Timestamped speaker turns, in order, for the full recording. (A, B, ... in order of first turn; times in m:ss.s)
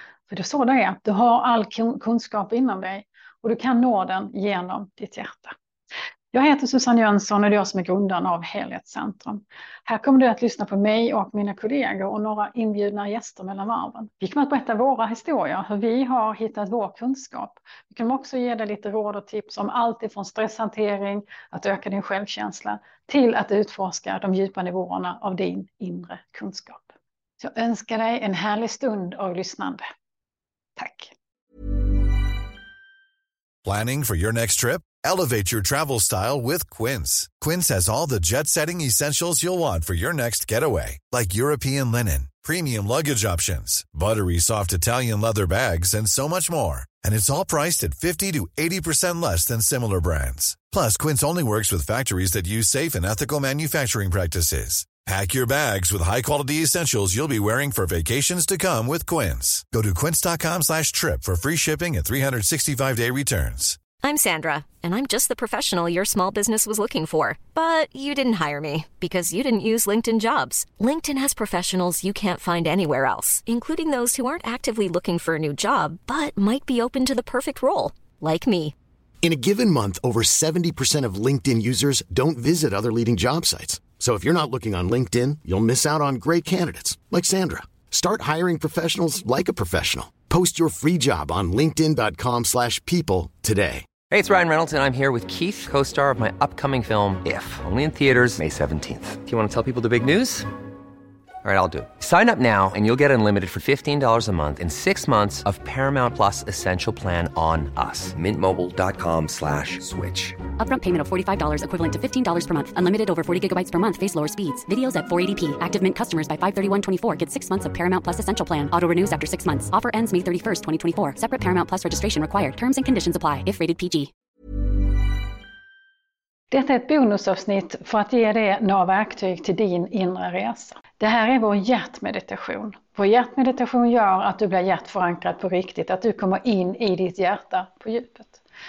0:00.3-0:05.6 A
0:06.3-0:29.8 A
0:30.8-0:31.1 A
0:33.7-1:03.8 B
1:04.0-1:18.7 C
1:19.2-1:33.9 D
1:34.1-1:40.4 E
1:41.4-1:50.4 E
1:50.6-2:04.1 F
2:06.5-2:18.4 A